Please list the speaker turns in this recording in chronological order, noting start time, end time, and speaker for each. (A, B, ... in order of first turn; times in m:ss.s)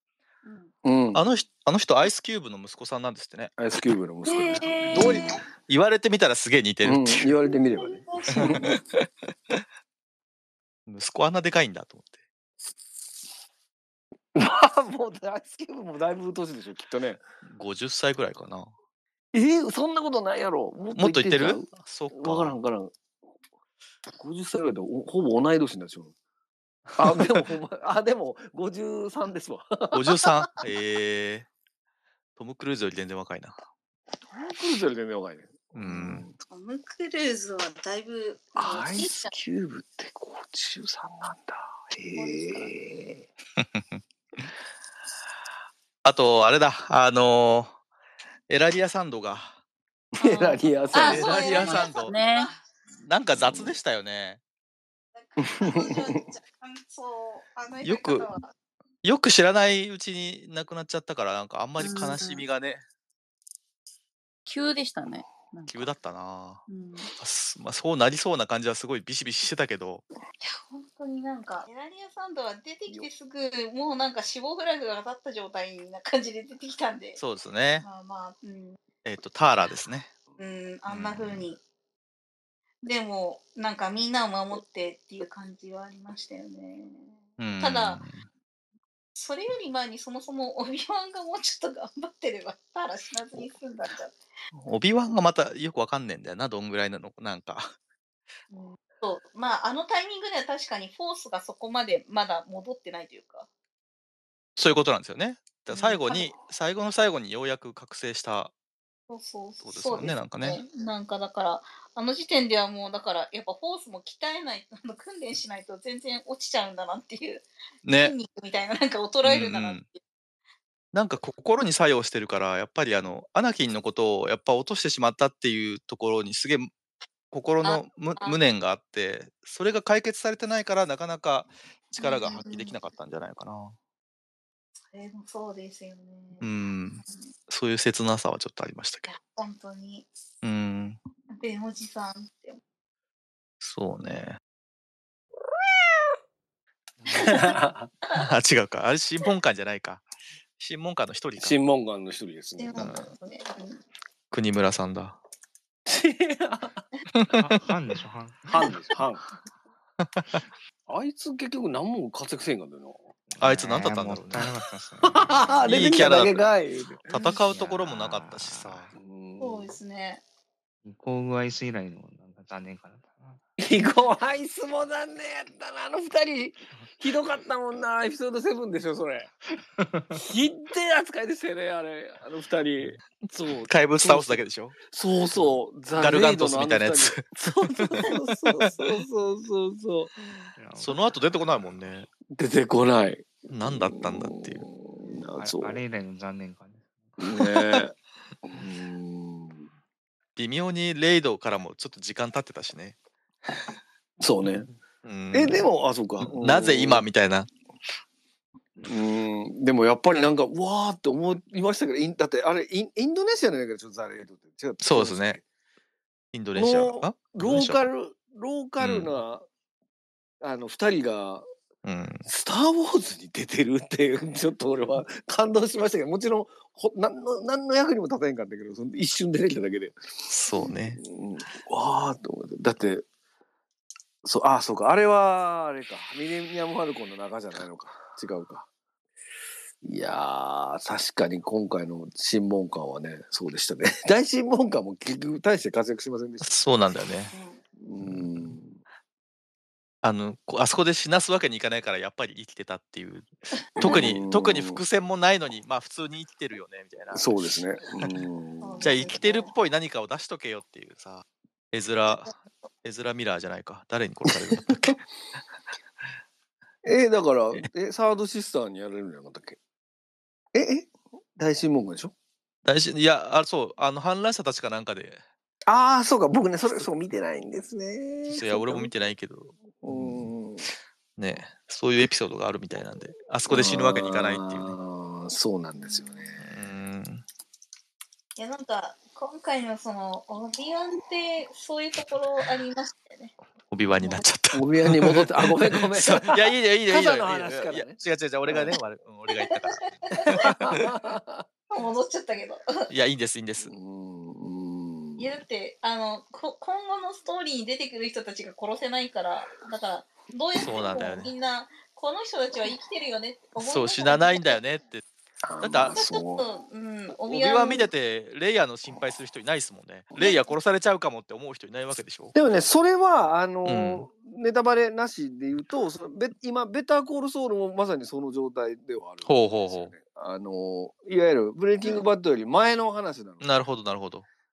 0:00.4-0:00.7 A
0:00.8-0:01.2 B
0:01.1-0:03.6 C
0:03.6-0:05.4 B
0:04.3-0:05.2 D
0:04.7-0:05.4 A
0:05.7-0:07.4 C
0:06.8-0:08.8 B
0:07.8-0:08.6 A
0:08.3-0:08.8 C
0:10.9-0:12.2 C
0:14.4-0:17.2 B
0:17.5-0:18.7 C
0:19.3-0:22.9 B
0:21.0-0:22.6 C
0:24.2-0:26.1 B
0:27.0-0:27.4 C
0:27.0-0:30.3 B
0:29.9-0:31.5 C
0:32.4-0:33.6 C
0:34.3-0:36.3 B
0:35.7-0:36.3 C
0:36.5-0:39.3 A
0:38.6-0:43.3 B
0:42.1-0:42.8 A
0:43.6-0:44.5 C
0:46.0-0:47.8 C
0:48.5-0:49.6 C
0:50.1-0:51.5 B
0:50.2-0:52.6 A
0:51.0-0:52.1 C
0:51.0-0:52.5 D
0:53.0-0:54.4 C
0:53.3-0:53.8 B
0:55.2-0:58.5 A
0:55.4-0:56.2 B
0:57.8-0:58.3 C
0:59.0-1:02.8 C
1:01.8-1:02.4 D
1:04.5-1:05.9 D
1:05.7-1:06.7 C
1:06.7-1:07.1 D
1:07.2-1:10.0 C
1:10.4-1:17.2 A
1:17.2-1:17.8 C
1:17.8-1:18.8 A
1:19.0-1:20.1 C
1:20.4-1:21.6 A
1:20.9-1:21.5 C
1:22.8-1:28.0 A
1:27.4-1:28.2 C
1:29.2-1:34.2 A
1:34.5-1:37.7 C
1:38.5-1:43.5 A
1:44.6-1:48.5 C
1:45.7-1:46.3 A
1:49.1-1:57.5 A
1:49.6-1:50.6 C
1:57.8-1:58.1 C
1:58.0-2:00.0 A
1:59.2-1:59.8 C
2:00.9-2:06.7 C
2:07.3-2:13.8 C
2:07.6-2:08.4 A
2:12.0-2:12.7 A
2:14.9-2:16.5 A
2:16.4-2:19.1 C
2:19.1-2:20.1 A
2:20.4-2:21.0 C
2:21.3-2:22.6 A
2:23.6-2:24.4 C
2:27.0-2:27.3 E
2:27.2-2:27.9 B
2:28.1-2:30.0 C
2:30.6-2:31.6 C
2:31.4-2:33.0 B
2:32.6-2:33.8 A
2:32.8-2:33.1 C
2:34.3-2:35.2 C
2:35.9-2:36.8 B
2:37.1-2:37.6 C
2:37.3-2:38.8 E
2:38.5-2:39.2 B
2:40.0-2:40.4 C
2:40.9-2:43.1 B
2:43.3-2:46.3 E
2:43.4-2:44.5 C
2:45.1-2:47.0 B
2:45.7-2:46.4 C
2:47.1-2:49.0 E
2:47.1-2:48.9 C
2:49.0-2:49.7 B
2:49.4-2:50.2 A
2:50.8-2:53.4 E
2:53.6-2:59.3 B
2:59.8-3:00.2 E
3:00.1-3:10.1 B
3:03.7-3:04.8 C
3:05.9-3:07.3 C
3:08.3-3:08.7 A
3:10.6-3:11.2 E
3:10.8-3:12.1 C
3:12.3-3:15.8 B
3:13.5-3:14.7 C
3:15.4-3:17.4 E
3:17.2-3:17.9 B
3:18.4-3:19.7 B
3:20.4-3:23.0 C
3:24.2-3:24.7 B
3:25.0-3:25.7 C
3:25.3-3:27.1 B
3:26.2-3:27.5 C
3:28.8-3:35.4 B
3:34.8-3:35.4 C
3:36.3-3:37.9 C
3:36.6-3:39.5 B
3:38.8-3:39.1 C
3:40.4-3:41.5 B
3:41.8-3:42.2 C
3:42.3-3:50.0 B
3:50.3-3:51.0 C
3:50.5-3:53.0 B
3:54.2-3:58.7 B
3:59.8-4:06.6 B
4:06.4-4:07.3 C
4:07.3-4:07.6 A
4:07.8-4:08.8 B
4:08.0-4:08.6 C
4:10.0-4:17.4 C
4:13.8-4:14.8 B
4:17.1-4:18.9 B
4:18.0-4:18.2 C
4:18.6-4:19.5 A
4:18.8-4:25.0 C
4:24.5-4:24.9 B
4:26.8-4:29.6 B
4:30.5-4:32.1 B
4:32.6-4:35.2 C
4:35.7-4:38.9 B
4:38.3-4:40.3 C
4:39.8-4:40.7 B
4:41.2-4:44.8 C
4:43.5-4:46.5 B
4:45.9-4:46.2 A
4:46.4-4:47.2 C
4:48.4-4:53.3 A
4:53.7-5:00.8 C
4:54.5-4:58.8 B
4:59.3-5:00.4 A
5:00.3-5:01.4 B
5:01.7-5:02.9 A
5:02.9-5:03.7 C
5:03.6-5:05.2 B
5:05.2-5:14.6 A
5:10.6-5:11.3 C
5:13.6-5:15.0 C
5:15.4-5:16.5 B
5:15.6-5:16.0 C
5:15.9-5:17.9 A
5:17.3-5:22.4 C
5:22.3-5:33.5 B
5:23.6-5:24.1 C
5:29.2-5:29.9 C
5:33.4-5:34.3 C